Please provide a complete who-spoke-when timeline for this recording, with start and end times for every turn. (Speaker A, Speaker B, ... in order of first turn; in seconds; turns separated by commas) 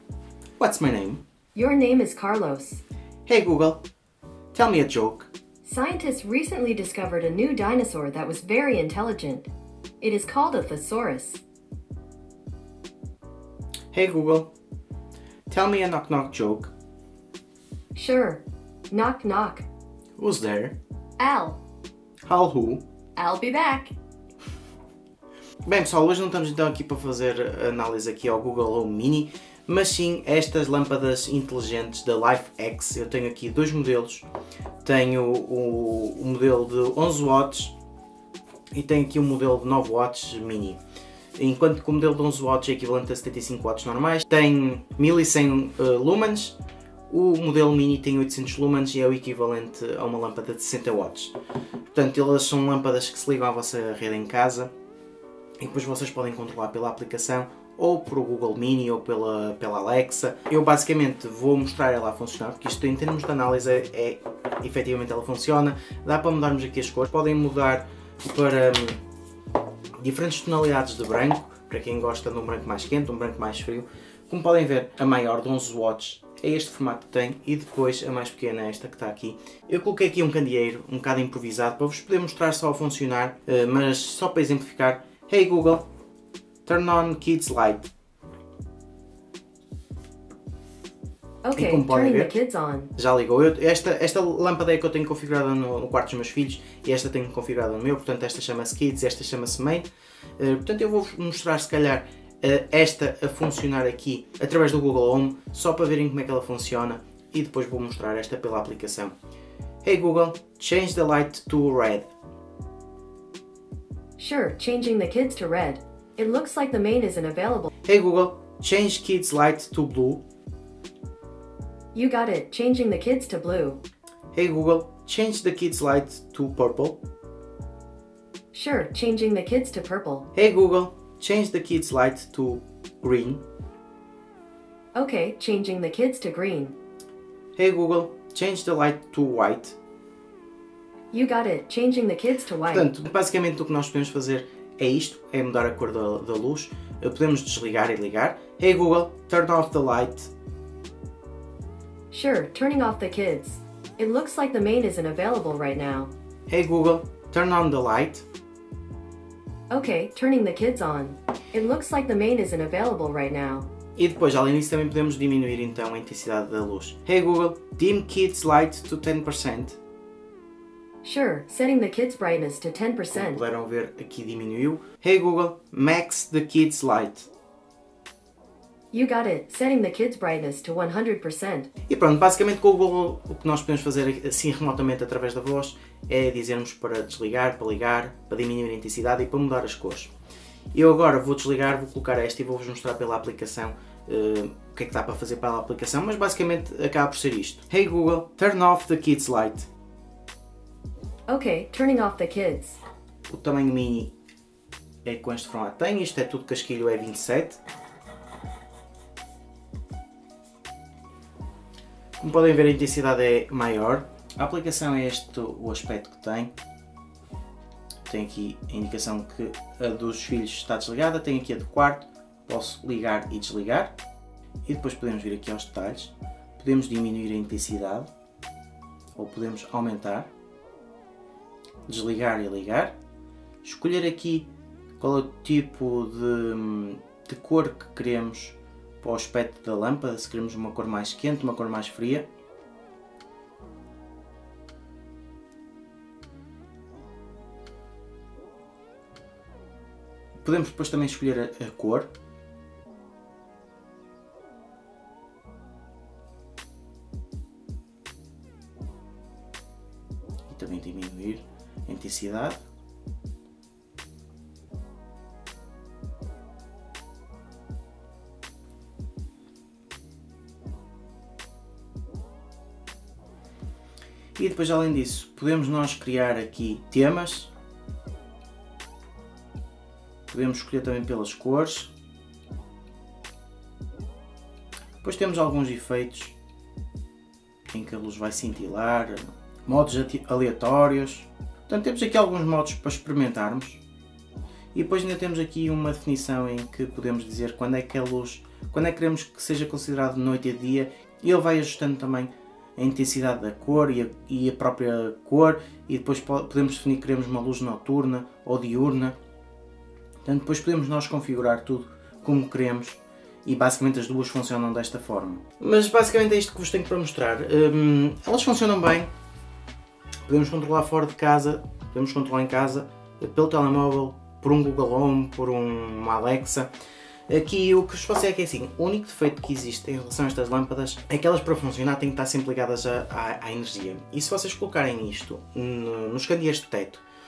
Speaker A: 0.6-1.2, Speaker B: 1.5-2.8, Speaker A: 3.3-3.8, Speaker A: 4.5-5.3, Speaker B: 5.6-11.4, Speaker A: 13.9-14.5, Speaker A: 15.5-16.7, Speaker B: 17.9-19.6, Speaker A: 20.2-20.8, Speaker B: 21.2-21.6, Speaker A: 22.2-22.8, Speaker B: 23.1-23.9, Speaker A: 25.6-34.2, Speaker A: 34.8-37.7, Speaker A: 38.7-40.8, Speaker A: 41.4-46.6, Speaker A: 47.1-51.3, Speaker A: 51.9-54.7, Speaker A: 55.6-69.0, Speaker A: 70.0-85.8, Speaker A: 86.6-87.9, Speaker B: 91.4-92.9, Speaker A: 91.5-92.3, Speaker A: 92.9-99.9, Speaker A: 100.4-109.1, Speaker A: 109.8-112.1, Speaker B: 114.2-117.7, Speaker A: 117.8-120.2, Speaker B: 121.9-123.8, Speaker A: 124.3-127.0, Speaker B: 128.5-130.3, Speaker A: 130.3-133.4, Speaker B: 134.9-136.8, Speaker A: 137.6-139.8, Speaker B: 141.1-142.9, Speaker A: 142.7-150.3, Speaker B: 152.1-156.1, Speaker A: 156.5-158.2, Speaker B: 159.7-163.7, Speaker A: 163.9-169.8, Speaker B: 171.0-173.4, Speaker A: 173.1-177.3, Speaker B: 178.9-181.7, Speaker A: 181.9-190.1, Speaker A: 190.7-199.7, Speaker B: 201.3-202.8, Speaker A: 203.3-204.1, Speaker A: 205.0-207.6, Speaker A: 212.2-216.5, Speaker A: 218.1-223.9, Speaker A: 224.7-228.1, Speaker A: 229.2-230.3, Speaker A: 231.9-232.9, Speaker A: 233.6-242.3, Speaker A: 250.4-252.1, Speaker A: 260.5-262.6, Speaker A: 274.4-277.5, Speaker A: 280.3-281.9, Speaker A: 285.0-286.4, Speaker A: 287.7-293.8, Speaker A: 294.7-309.1, Speaker A: 310.2-319.1, Speaker A: 320.2-326.7, Speaker A: 327.3-337.0